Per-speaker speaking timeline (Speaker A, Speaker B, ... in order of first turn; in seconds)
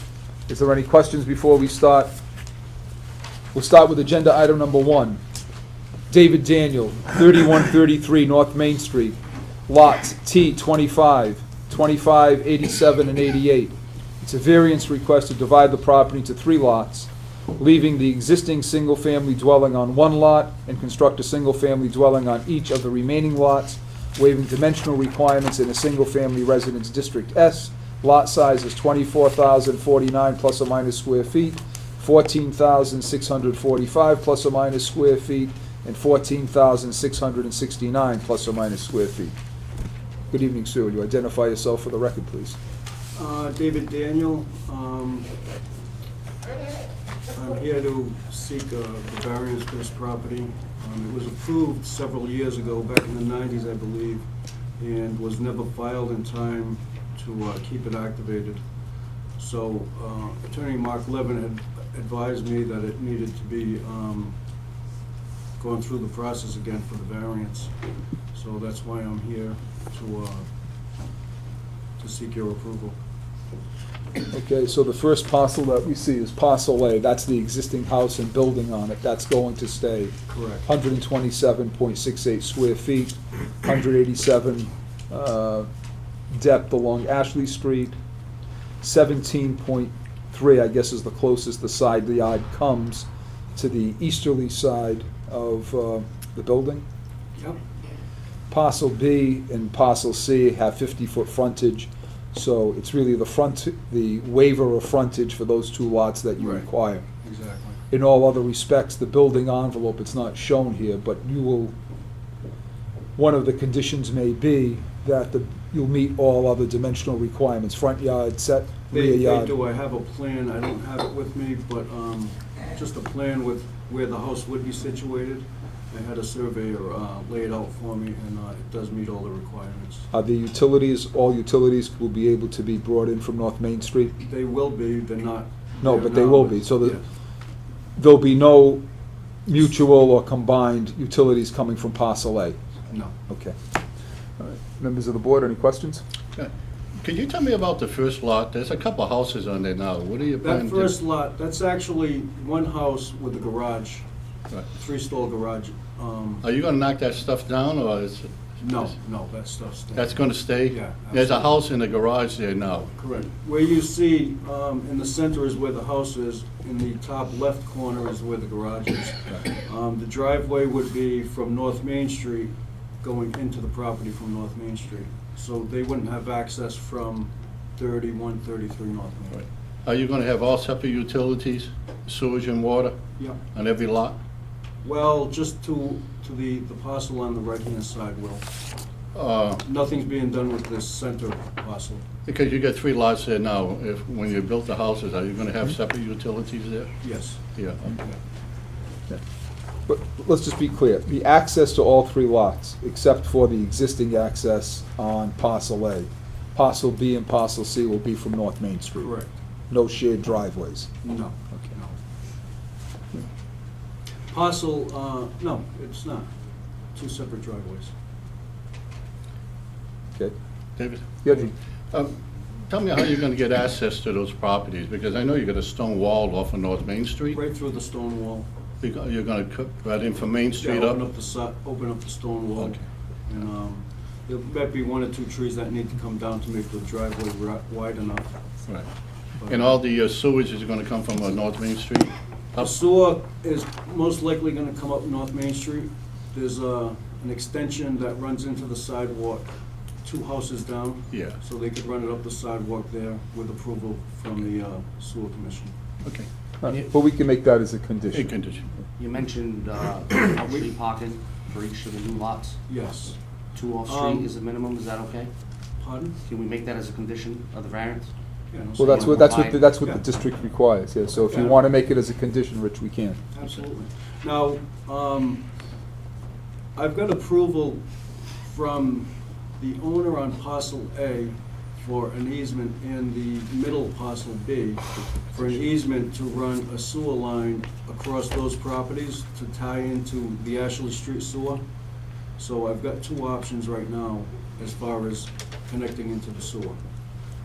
Speaker A: 0.5-2.1, 3.5-5.2, 6.1-39.4, 40.3-42.6, 74.3-85.7, 86.3-88.0, 88.8-96.8, 98.5-107.0, 107.9-111.7, 113.2-119.6, 130.1-134.2, 135.8-137.0, 138.0-138.8, 139.5-142.6, 143.3-143.6, 144.4-146.0, 199.9-209.2, 209.7-210.9, 221.2-221.5, 256.6-258.3, 268.8-273.2
Speaker B: 43.1-45.3, 47.4-54.2, 54.8-58.6, 59.4-64.3, 65.6-67.7, 68.3-70.5, 72.0-73.0, 80.3-80.7, 106.4-106.7, 107.2-107.8, 118.9-130.1, 134.2-137.0, 150.4-154.1, 154.7-156.4, 158.6-161.5, 163.0-179.4, 184.8-188.4, 189.6-192.0, 197.0-197.4, 209.0-209.3, 211.0-212.0, 214.3-216.3, 216.9-217.9, 227.3-228.5, 230.6-238.3, 242.6-249.5, 250.0-255.7, 262.7-263.2, 263.9-264.3, 265.8-266.2, 268.5-270.0, 271.3-271.6, 273.3-275.4, 276.8-277.8, 278.5-291.6, 292.4-296.8
Speaker C: 147.0-151.0, 156.4-158.4, 160.0-162.9, 179.8-183.0, 183.5-184.2, 189.1-189.6, 192.3-197.0, 197.6-198.0, 220.8-221.2, 221.9-222.2, 222.7-227.4, 228.8-231.0, 239.5-242.8, 251.1-251.4, 258.1-258.7
Speaker D: 259.0-262.6, 263.6-265.3, 266.2-268.1, 268.8-269.6